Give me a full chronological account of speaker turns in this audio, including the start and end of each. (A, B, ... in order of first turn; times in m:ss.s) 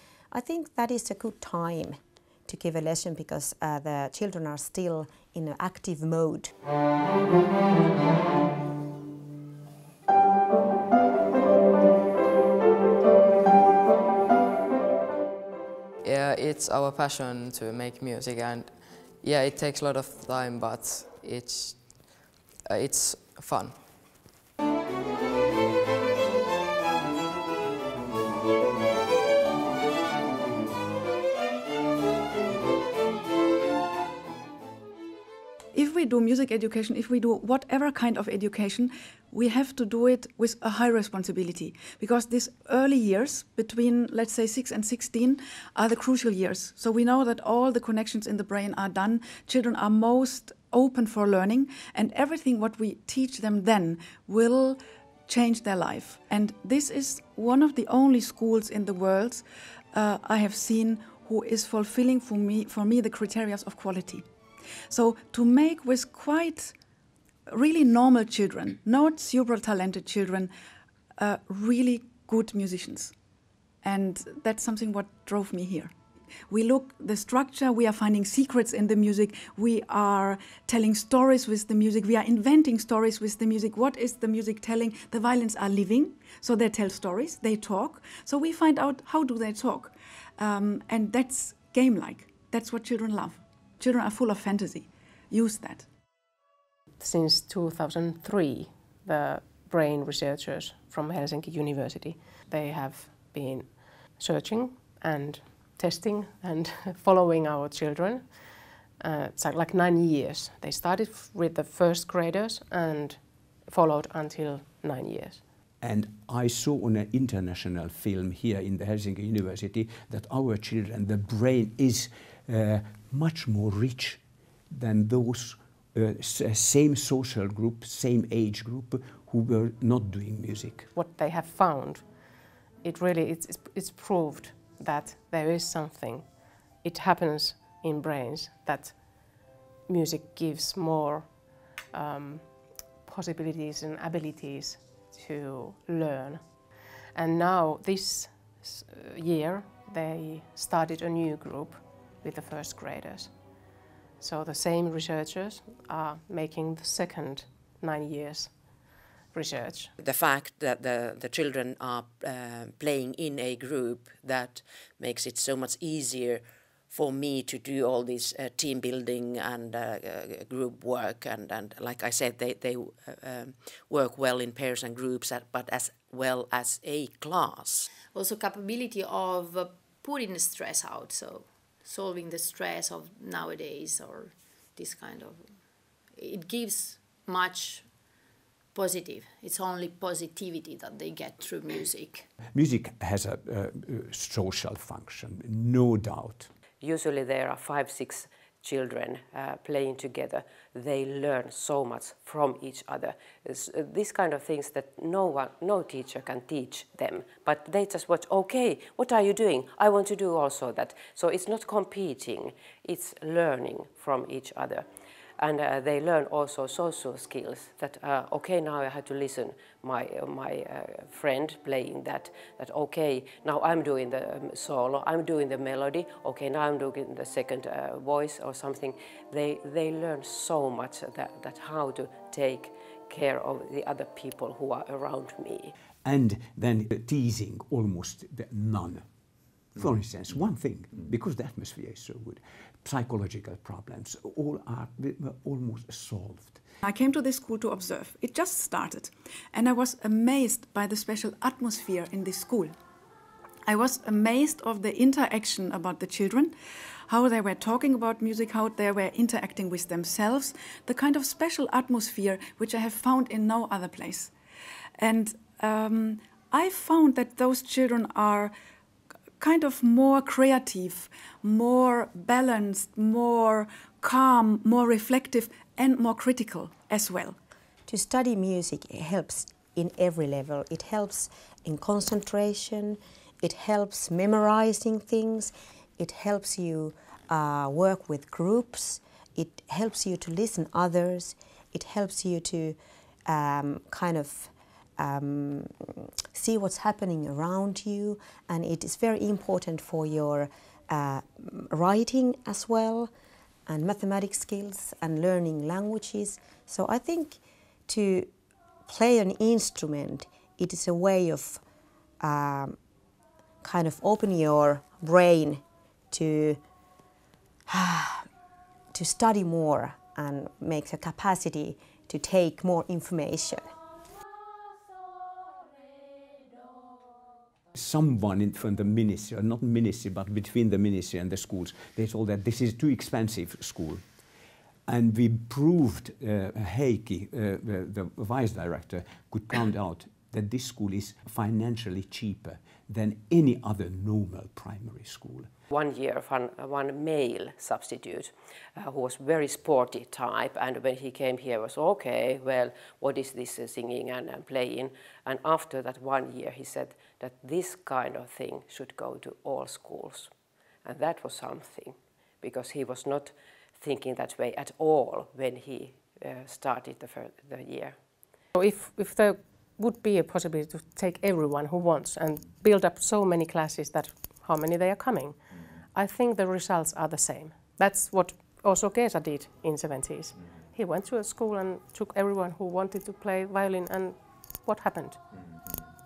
0:00.3-0:06.5 A
0:16.0-0:21.8 B
0:22.9-0:23.5 B
0:35.7-1:04.2 C
1:04.9-1:06.7 C
1:07.5-1:10.5 C
1:11.2-1:13.1 C
1:13.8-1:15.9 C
1:16.5-1:35.8 C
1:37.0-1:55.4 D
1:55.8-2:10.9 E
2:10.9-2:12.2 D
2:12.8-2:33.3 D
2:34.2-2:39.9 D
2:40.0-2:57.9 F
2:58.0-3:08.2 G
3:08.7-3:12.3 G
3:12.5-3:16.5 E
3:16.8-3:34.8 H
3:35.4-3:55.7 H
3:56.0-3:59.0 E
3:59.8-4:06.6 E
4:06.8-4:12.7 C
4:13.7-4:16.5 C
4:17.1-4:24.3 C
4:25.0-4:28.5 C
4:29.4-4:37.4 C
4:37.9-5:03.1 A
5:03.7-5:08.3 A
5:08.8-5:11.6 A
5:12.2-5:12.8 A
5:13.6-5:16.6 A
5:17.7-5:18.3 A
5:18.9-5:23.7 A
5:27.7-5:34.0 E
5:34.9-5:45.5 E
5:45.7-6:00.3 H
6:00.8-6:08.0 H
6:08.5-6:25.4 D